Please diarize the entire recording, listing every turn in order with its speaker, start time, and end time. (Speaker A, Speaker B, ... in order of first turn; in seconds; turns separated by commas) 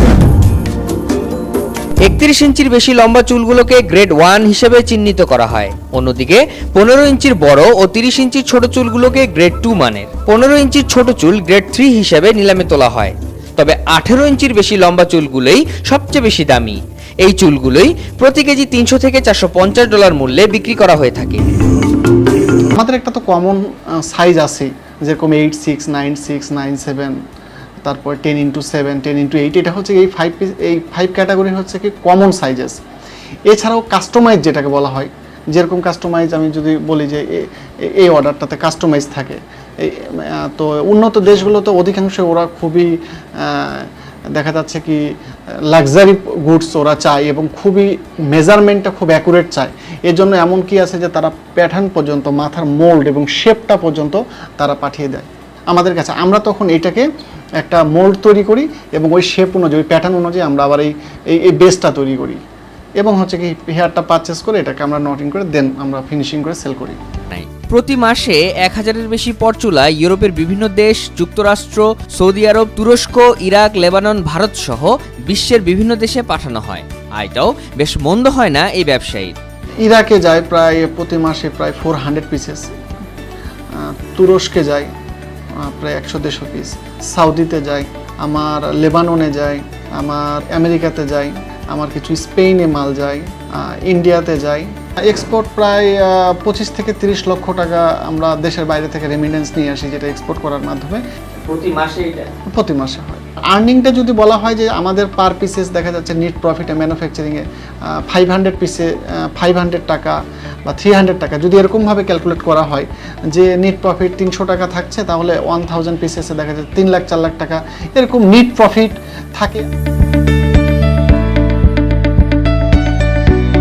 Speaker A: 2.0-21.4, Speaker B: 22.7-27.2, Speaker B: 27.8-32.8, Speaker B: 33.5-45.1, Speaker B: 45.7-57.1, Speaker B: 57.6-62.4, Speaker B: 63.0-67.0, Speaker A: 67.3-79.3, Speaker B: 79.8-82.7, Speaker B: 83.8-84.9, Speaker B: 85.6-101.0, Speaker A: 101.5-102.3, Speaker B: 102.5-119.7